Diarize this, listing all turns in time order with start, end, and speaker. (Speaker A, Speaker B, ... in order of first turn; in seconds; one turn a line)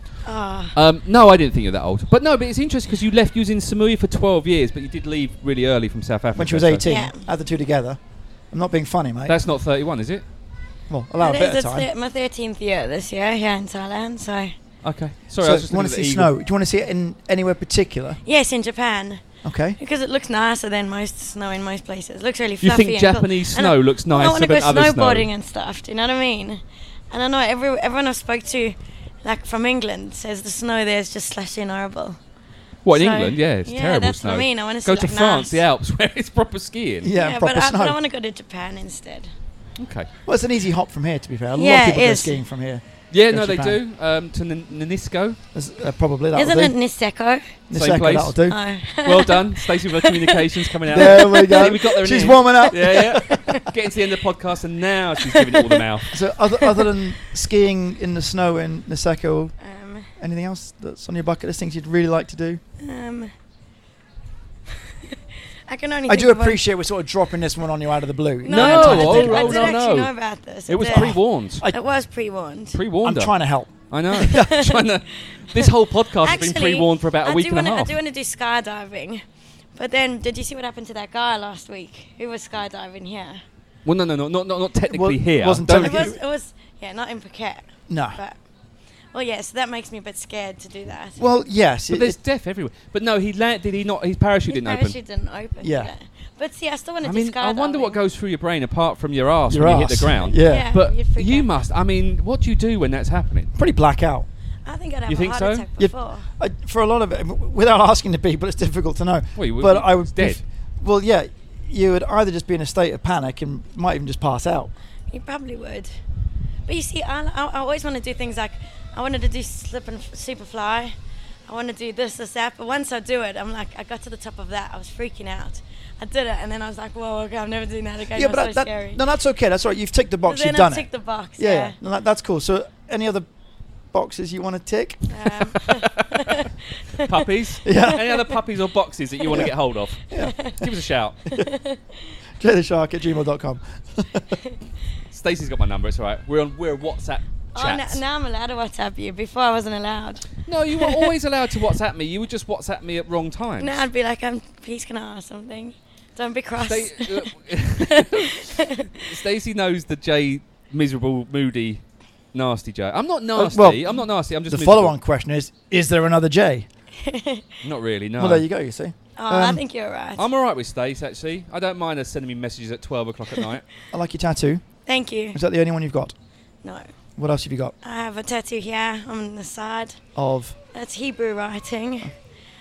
Speaker A: 0.2-0.8
Speaker B: 0.7-6.9
Speaker C: 6.4-8.0
Speaker A: 6.8-7.3
Speaker C: 8.5-9.4
Speaker B: 9.3-10.2
Speaker C: 10.9-11.9
Speaker A: 11.2-14.6
Speaker B: 14.8-16.3
Speaker C: 15.4-18.2
Speaker A: 18.2-19.2
Speaker C: 19.4-19.8
Speaker A: 19.8-32.2
Speaker B: 22.6-25.3
Speaker B: 32.9-37.1
Speaker A: 32.9-35.6
Speaker C: 37.0-38.0
Speaker A: 37.1-39.3
Speaker B: 39.8-40.1
Speaker C: 40.3-43.8
Speaker A: 41.5-42.4
Speaker B: 43.1-45.4
Speaker C: 45.5-46.7
Speaker A: 46.3-47.6
Speaker C: 47.7-48.6
Speaker B: 47.7-48.4
Speaker A: 48.5-51.8
Speaker B: 49.0-56.1
Speaker C: 50.9-53.2
Speaker A: 52.5-53.7
Speaker A: 55.3-55.8
Speaker C: 56.1-59.5
Speaker A: 56.6-56.9
Speaker A: 59.6-60.1
Speaker C: 60.2-62.6
Speaker A: 62.8-63.3
Speaker A: 65.7-66.6
Speaker C: 66.1-69.7
Speaker A: 68.5-71.1
Speaker B: 68.5-70.1
Speaker B: 70.7-71.7
Speaker C: 70.9-71.8
Speaker A: 71.6-72.8
Speaker B: 72.7-73.3
Speaker C: 73.0-74.5
Speaker B: 73.9-78.0
Speaker A: 74.2-79.2
Speaker A: 79.8-83.4
Speaker B: 83.8-86.1
Speaker C: 84.9-86.2
Speaker A: 85.7-88.4
Speaker C: 87.9-88.2
Speaker A: 89.1-91.3
Speaker C: 91.2-92.2
Speaker B: 91.9-95.0
Speaker A: 94.5-98.0
Speaker C: 95.6-95.9
Speaker B: 97.0-103.5
Speaker C: 99.5-100.7
Speaker A: 100.4-101.5
Speaker C: 103.5-104.3
Speaker A: 104.7-106.3
Speaker B: 105.1-105.7
Speaker C: 105.8-114.7
Speaker B: 109.4-110.4
Speaker A: 115.1-115.9
Speaker A: 116.7-121.0
Speaker A: 121.5-129.0
Speaker C: 128.1-130.9
Speaker A: 130.3-131.8
Speaker C: 131.4-133.3
Speaker C: 133.9-135.1
Speaker A: 135.1-136.5
Speaker B: 135.5-141.2
Speaker C: 137.7-138.0
Speaker C: 140.1-140.5
Speaker A: 140.2-140.6
Speaker A: 141.4-141.8
Speaker C: 142.4-144.4
Speaker B: 145.1-148.0
Speaker A: 147.6-151.1
Speaker B: 150.4-153.8
Speaker A: 153.6-157.3
Speaker B: 156.6-164.9
Speaker A: 157.8-158.9
Speaker C: 163.3-163.8
Speaker C: 164.5-166.7
Speaker A: 167.0-167.4
Speaker B: 167.6-168.5
Speaker C: 168.2-169.6
Speaker A: 169.2-170.3
Speaker B: 170.2-173.7
Speaker C: 173.9-174.6
Speaker A: 174.9-175.4
Speaker C: 175.3-176.1
Speaker C: 177.2-177.7
Speaker A: 177.8-180.0
Speaker C: 180.2-180.6
Speaker A: 180.7-182.1